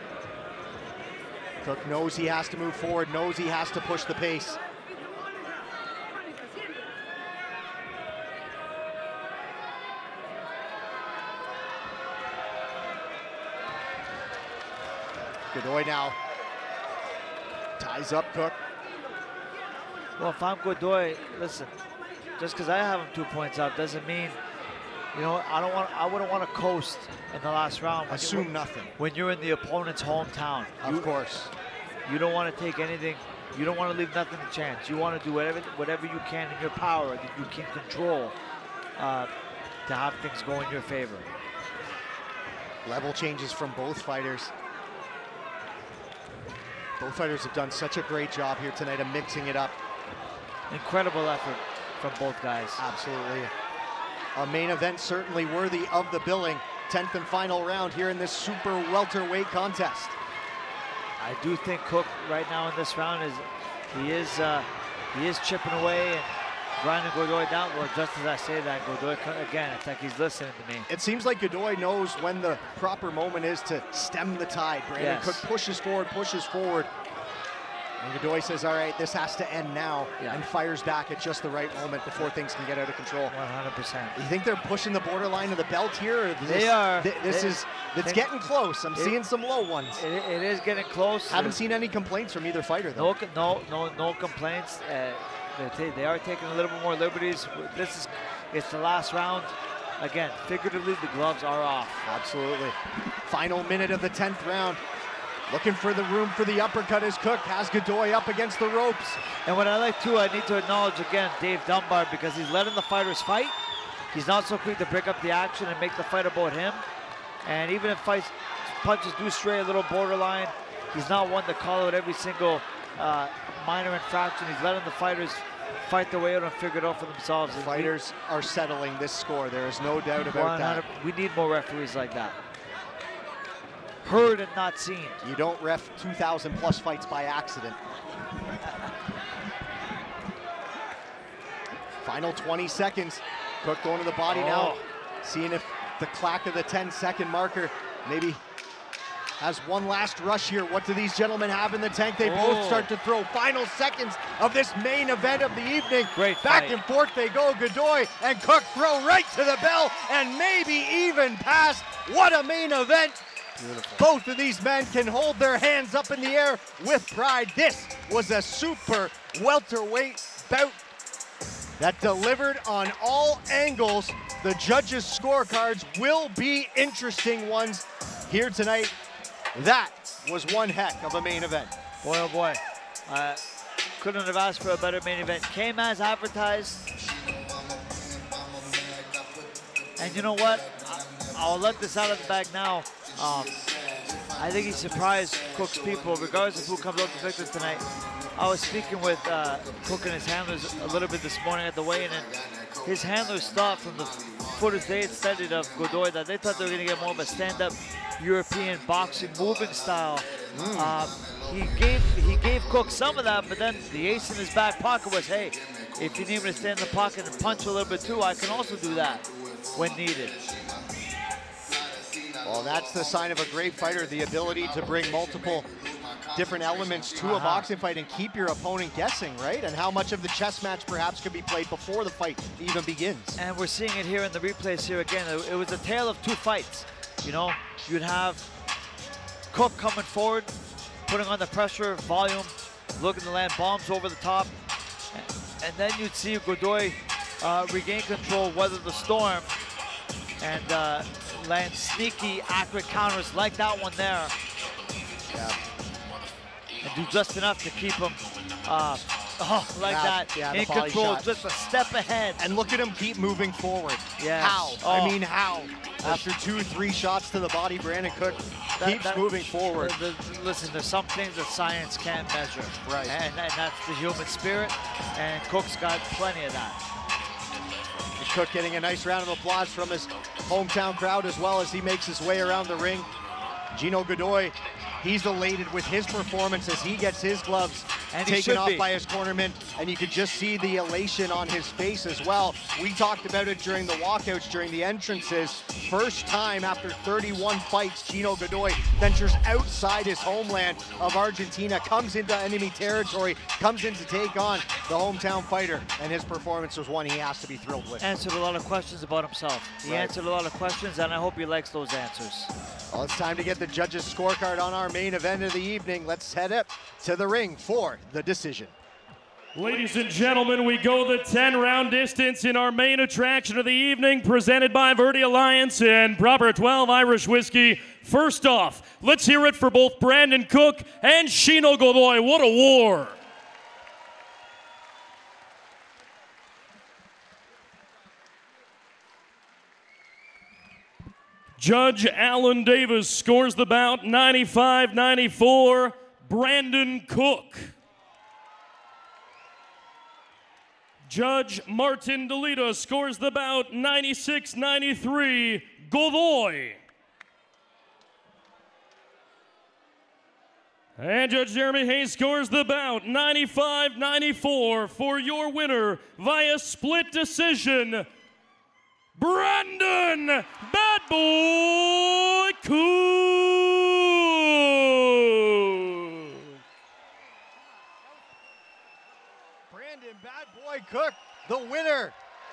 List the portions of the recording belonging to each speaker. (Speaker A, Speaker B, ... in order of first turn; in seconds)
Speaker A: 1.6-4.6, 15.5-16.2, 17.8-18.6, 28.1-28.9, 30.8-31.5, 42.9-44.5, 47.0-49.8, 52.8-53.5, 54.4-60.2, 70.9-76.9, 78.0-83.3, 84.2-90.0, 91.3-93.1, 102.0-104.8, 105.5-109.2, 127.5-130.8, 135.2-137.8, 142.0-148.4, 149.4-163.2, 164.0-170.8, 171.8-178.9, 179.6-181.7, 210.5-211.0, 222.4-225.7, 226.3-233.4, 255.3-255.6, 259.8-261.3, 262.4-270.0, 272.9-273.2, 278.2-283.1, 283.7-308.1, 309.8-310.1, 312.9-318.7, 379.7-382.2
Speaker B: 20.2-21.8, 22.4-24.4, 25.1-31.1, 32.0-38.4, 39.0-39.3, 39.9-41.3, 50.7-52.8, 61.2-70.9, 75.0-75.4, 80.2-80.4, 83.3-84.2, 86.4-88.3, 90.0-91.6, 93.0-102.0, 109.5-113.6, 114.1-116.8, 117.5-127.9, 130.3-132.4, 134.0-135.2, 144.3-144.8, 152.2-152.9, 156.2-156.8, 163.6-164.0, 182.0-183.4, 184.0-186.9, 190.0-193.6, 194.3-220.4, 227.2-227.7, 233.4-238.4, 239.5-240.5, 241.1-244.5, 245.1-249.5, 250.4-254.3, 256.8-262.4, 264.2-265.2, 266.0-266.3, 268.8-276.8, 288.1-288.9, 308.0-312.5
Speaker C: 319.6-333.2, 341.6-347.7, 351.1-356.8, 361.0-368.1, 369.2-376.5